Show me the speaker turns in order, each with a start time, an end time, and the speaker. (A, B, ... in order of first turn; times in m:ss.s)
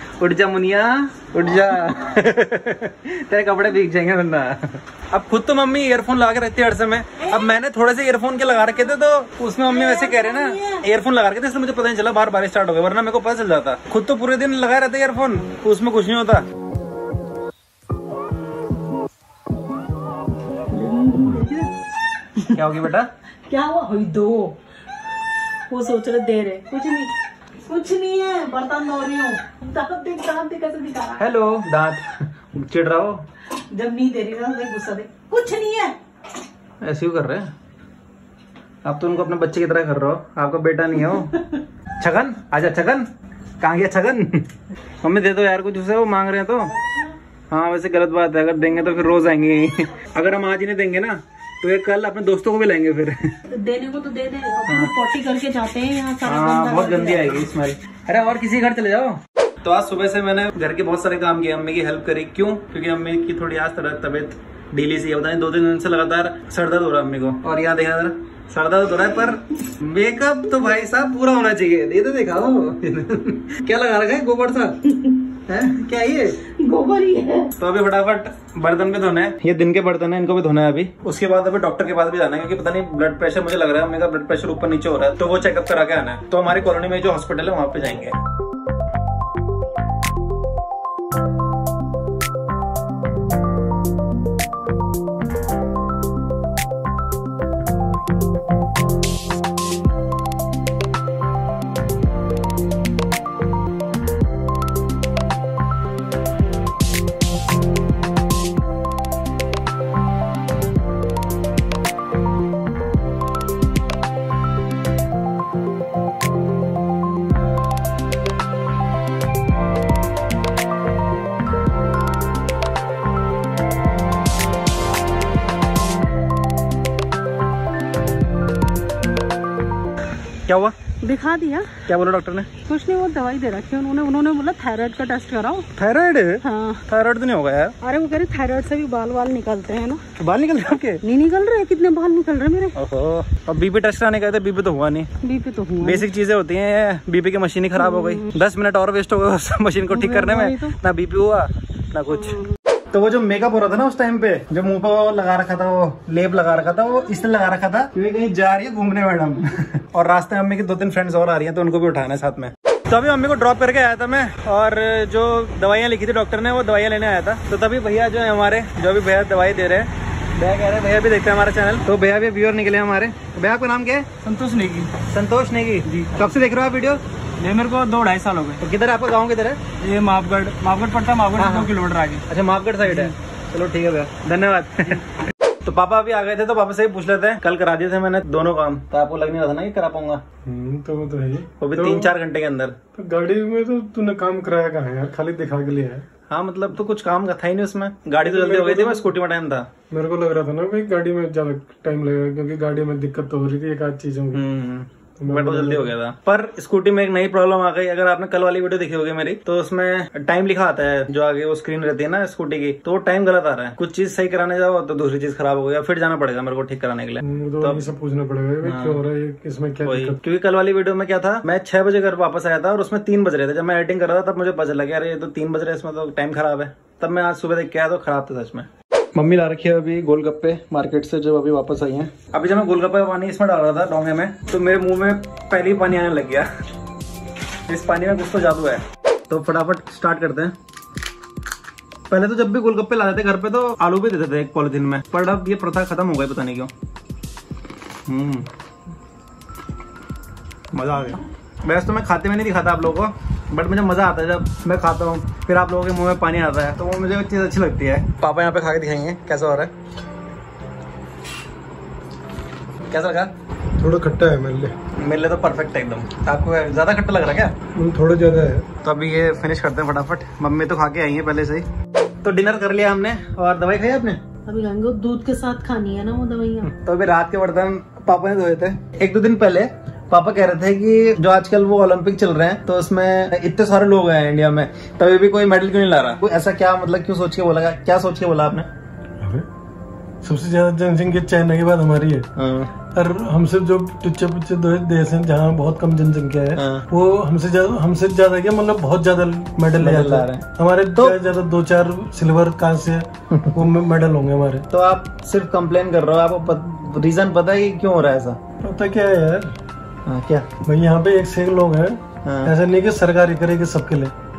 0:00.2-0:16.4 A
0:09.7-0:10.8 B
0:20.7-0:21.7 B
0:22.4-0:22.9 B
0:22.6-0:23.1 A
0:23.5-0:24.6 B
0:25.7-0:27.1 B
0:27.6-0:31.3 B
0:31.2-0:33.2 A
0:33.7-0:36.0 B
0:36.8-0:37.5 A
0:38.8-0:41.3 A
0:42.0-0:43.1 A
0:43.6-0:44.5 A
0:45.0-0:46.7 A
0:47.5-0:53.4 A
0:53.5-0:57.4 B
0:56.2-1:14.8 A
1:14.9-1:15.2 B
1:15.4-1:16.4 A
1:16.6-1:17.5 B
1:17.6-1:28.2 A
2:10.5-2:10.8 A
2:11.0-2:11.7 B
2:11.9-2:12.5 A
2:12.6-2:15.7 B
2:15.8-2:17.7 A
2:16.4-2:16.8 B
2:17.8-2:20.0 B
2:20.2-2:21.0 A
2:21.0-2:22.8 B
2:22.8-2:25.1 A
2:25.2-2:26.1 B
2:25.8-2:32.4 A
2:27.8-2:28.3 B
2:29.9-2:30.8 B
2:32.9-2:54.1 A
2:54.2-2:54.9 C
2:55.0-2:57.0 A
2:55.8-2:56.1 C
2:57.4-2:58.6 C
2:58.6-2:59.6 A
2:59.8-3:02.2 C
3:01.4-3:05.0 A
3:05.6-3:10.2 A
3:10.4-3:12.1 D
3:11.6-3:12.8 A
3:13.0-3:16.0 D
3:16.3-3:19.7 A
3:18.2-3:19.1 D
3:19.9-3:24.4 D
3:24.3-3:37.9 A
3:25.2-3:25.9 D
3:37.2-3:40.2 D
3:38.6-3:39.0 A
3:39.8-3:56.5 A
3:57.7-4:00.5 A
4:02.1-4:06.7 A
4:08.1-4:08.5 A
4:10.7-4:19.7 A
4:22.9-4:23.3 A
4:23.8-4:24.8 D
4:25.0-4:27.6 A
4:27.7-4:28.7 D
4:28.8-4:31.6 A
4:32.2-4:34.2 A
4:34.5-4:36.7 B
4:36.7-4:48.7 A
4:49.2-4:49.5 D
4:50.2-4:52.3 D
4:52.4-4:52.7 A
4:52.9-5:04.7 D
4:56.6-4:56.9 A
4:59.8-5:01.2 A
5:04.7-5:08.4 A
5:08.6-5:09.5 D
5:10.1-5:10.5 A
5:10.6-5:14.1 D
5:12.2-5:12.5 A